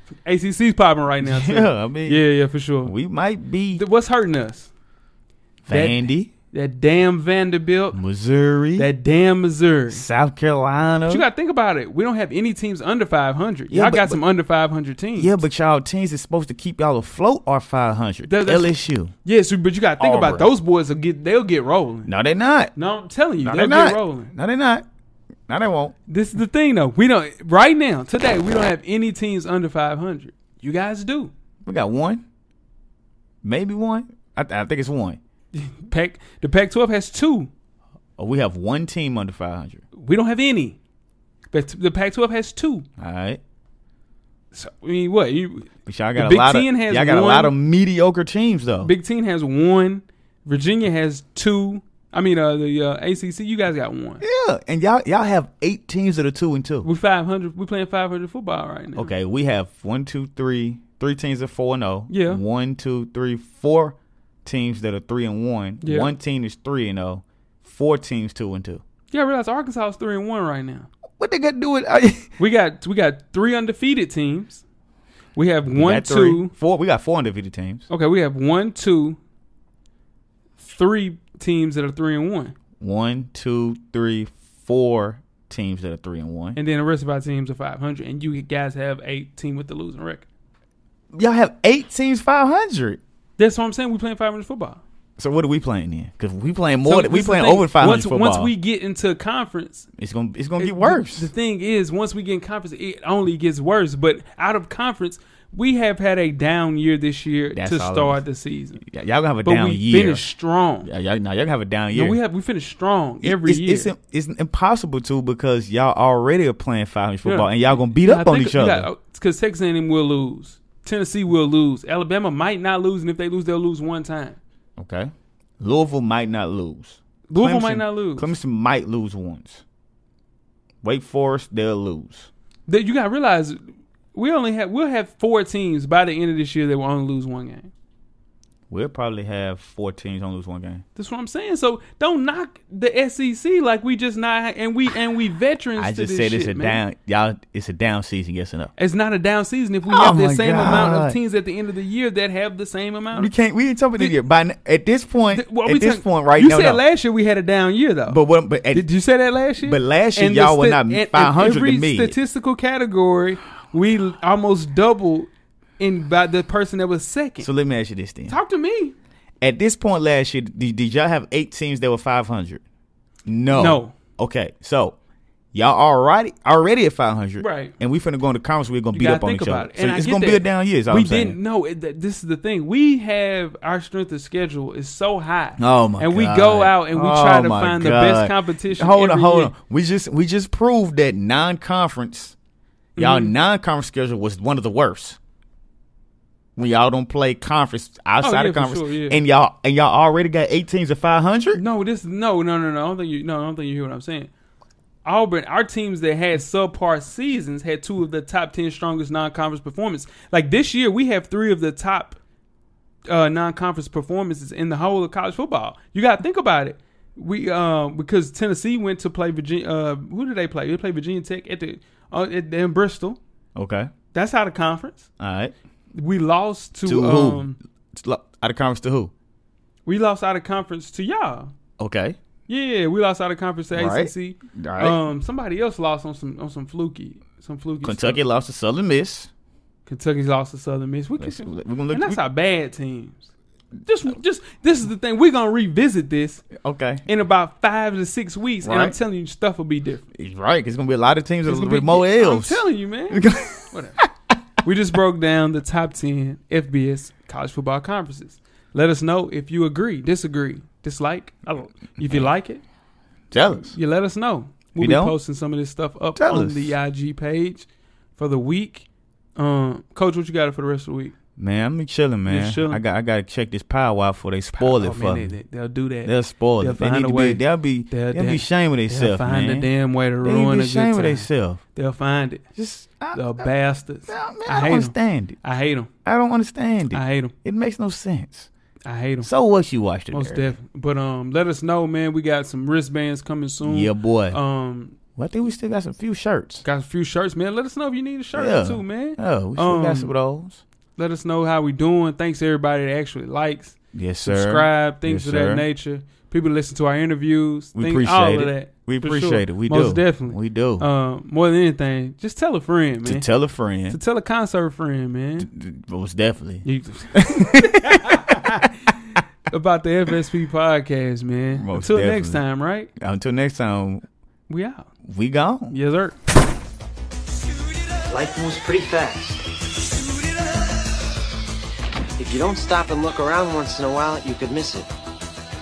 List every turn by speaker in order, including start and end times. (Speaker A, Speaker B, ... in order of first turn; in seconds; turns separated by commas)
Speaker A: 0.3-2.9, Speaker B: 1.2-2.2, Speaker B: 2.8-3.8, Speaker A: 3.7-4.7, Speaker B: 5.7-6.3, Speaker A: 5.7-8.0, Speaker B: 7.9-8.9, Speaker A: 8.8-10.1, Speaker B: 9.9-11.3, Speaker A: 11.1-15.3, Speaker B: 13.7-14.2, Speaker B: 15.2-19.1, Speaker A: 18.3-22.1, Speaker B: 20.0-20.5, Speaker B: 22.1-22.7, Speaker A: 22.8-24.3, Speaker B: 23.4-24.9, Speaker B: 25.5-25.9, Speaker A: 26.1-31.3, Speaker B: 31.6-32.2, Speaker B: 33.4-35.2, Speaker A: 35.5-37.5, Speaker B: 38.2-39.8, Speaker A: 39.9-40.8, Speaker A: 41.5-42.9, Speaker B: 43.0-43.4, Speaker A: 44.5-47.5, Speaker B: 45.9-48.9, Speaker A: 48.8-54.2, Speaker B: 54.2-56.9, Speaker A: 56.8-59.1, Speaker B: 59.0-68.8, Speaker A: 62.1-62.4, Speaker A: 65.8-66.1, Speaker A: 69.1-70.9, Speaker B: 71.2-72.3, Speaker A: 72.4-74.6, Speaker A: 75.3-76.5, Speaker B: 75.7-77.9, Speaker A: 77.9-79.2, Speaker A: 80.6-82.6, Speaker B: 82.8-86.6, Speaker A: 86.6-90.2, Speaker B: 91.1-93.0, Speaker A: 93.4-94.8, Speaker B: 95.2-98.5, Speaker A: 96.8-99.9, Speaker B: 100.0-101.3, Speaker A: 100.6-108.8, Speaker B: 107.5-108.2, Speaker B: 108.8-110.3, Speaker A: 109.4-110.9, Speaker B: 110.8-112.2, Speaker A: 111.9-113.9, Speaker B: 113.2-118.9, Speaker A: 117.2-124.4, Speaker B: 124.8-129.6, Speaker A: 127.3-128.3, Speaker B: 130.8-132.3, Speaker A: 132.7-133.6, Speaker A: 134.1-137.7, Speaker B: 138.7-140.8, Speaker A: 141.0-146.8, Speaker B: 145.8-148.7, Speaker A: 148.8-153.3, Speaker B: 149.9-151.2, Speaker B: 153.1-156.8, Speaker A: 155.3-158.2, Speaker B: 158.1-158.9, Speaker A: 158.7-167.5, Speaker B: 159.6-162.2, Speaker B: 167.4-168.4, Speaker A: 168.3-168.9, Speaker B: 169.4-172.6, Speaker B: 173.3-175.0, Speaker A: 173.5-173.9, Speaker B: 175.5-181.4, Speaker A: 177.4-177.8, Speaker A: 178.9-189.5, Speaker B: 185.6-192.4, Speaker A: 193.0-193.3, Speaker B: 193.0-195.2, Speaker B: 196.6-201.6, Speaker A: 198.2-199.2, Speaker A: 201.5-204.3, Speaker A: 205.1-212.2, Speaker A: 213.1-223.2, Speaker B: 223.6-223.9, Speaker A: 224.1-225.1, Speaker B: 225.2-225.5, Speaker A: 225.9-227.6, Speaker B: 226.8-229.1, Speaker A: 229.9-231.5, Speaker B: 231.8-232.2, Speaker A: 232.5-238.2, Speaker B: 233.7-235.0, Speaker B: 237.8-239.3, Speaker A: 239.9-243.3, Speaker B: 241.2-242.2, Speaker A: 243.8-246.5, Speaker B: 246.5-247.0, Speaker A: 247.1-250.0, Speaker B: 248.6-249.0, Speaker B: 250.1-254.1, Speaker A: 251.4-254.0, Speaker A: 254.6-262.6, Speaker B: 263.3-263.8, Speaker A: 263.6-271.1, Speaker B: 264.8-265.2, Speaker B: 266.2-266.8, Speaker B: 271.4-275.3, Speaker A: 272.3-272.8, Speaker A: 274.5-282.4, Speaker B: 276.1-279.7, Speaker B: 280.2-281.6, Speaker B: 282.6-283.5, Speaker A: 283.1-285.9, Speaker B: 284.1-285.4, Speaker B: 286.1-288.5, Speaker A: 286.9-287.3, Speaker A: 288.9-289.3, Speaker B: 289.2-290.6, Speaker A: 290.1-295.0, Speaker B: 293.6-294.4, Speaker B: 295.2-296.6, Speaker A: 296.6-300.1, Speaker B: 298.3-300.6, Speaker A: 301.0-313.3, Speaker B: 303.9-305.7, Speaker B: 307.8-310.9, Speaker B: 313.1-314.0, Speaker A: 313.9-315.5, Speaker B: 315.4-318.7, Speaker A: 316.6-322.9, Speaker B: 321.5-322.4, Speaker B: 323.0-324.1, Speaker A: 324.5-324.9, Speaker B: 325.0-325.8, Speaker A: 325.7-326.2, Speaker C: 328.1-329.4, Speaker C: 332.2-334.9